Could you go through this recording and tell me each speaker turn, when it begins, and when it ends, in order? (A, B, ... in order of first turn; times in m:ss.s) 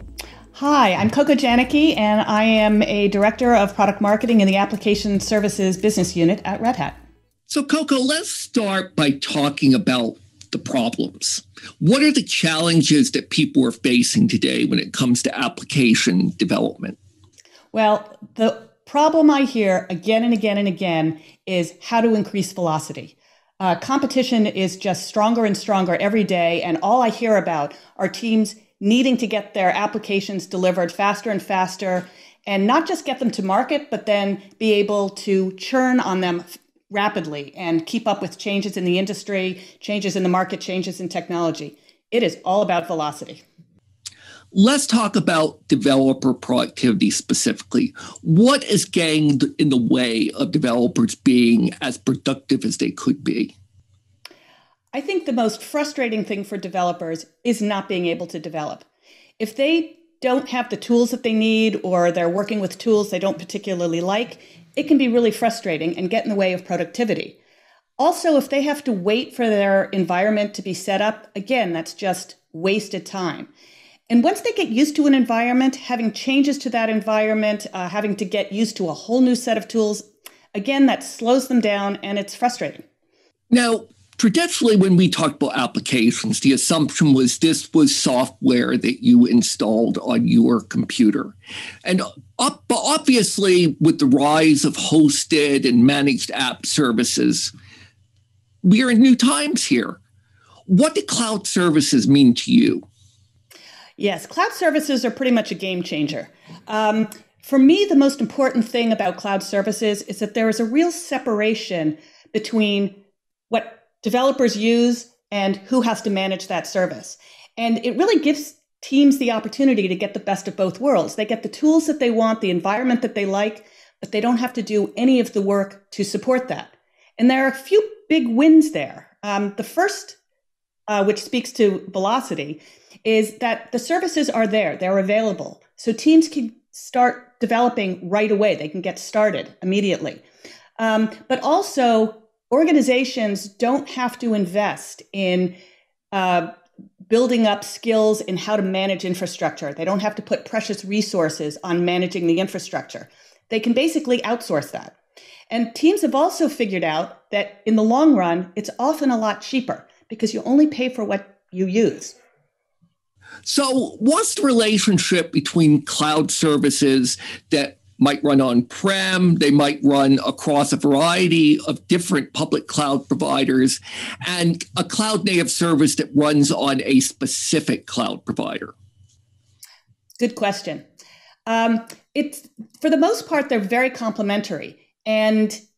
0:00.6-0:07.0 A
0:07.5-0:17.0 B
0:17.7-0:43.4 A
0:44.5-0:53.5 B
0:54.9-0:58.9 A
0:59.4-1:07.4 A
1:08.0-1:13.5 A
1:14.1-1:22.8 A
1:23.5-1:37.5 B
1:38.6-1:40.0 B
1:40.7-1:42.8 B
1:44.0-2:10.2 A
2:10.9-2:20.2 A
2:20.8-2:25.6 A
2:26.1-2:26.6 A
2:27.1-2:35.0 A
2:35.5-2:42.2 A
2:43.4-2:58.7 B
3:00.2-3:00.8 A
3:01.5-3:05.6 A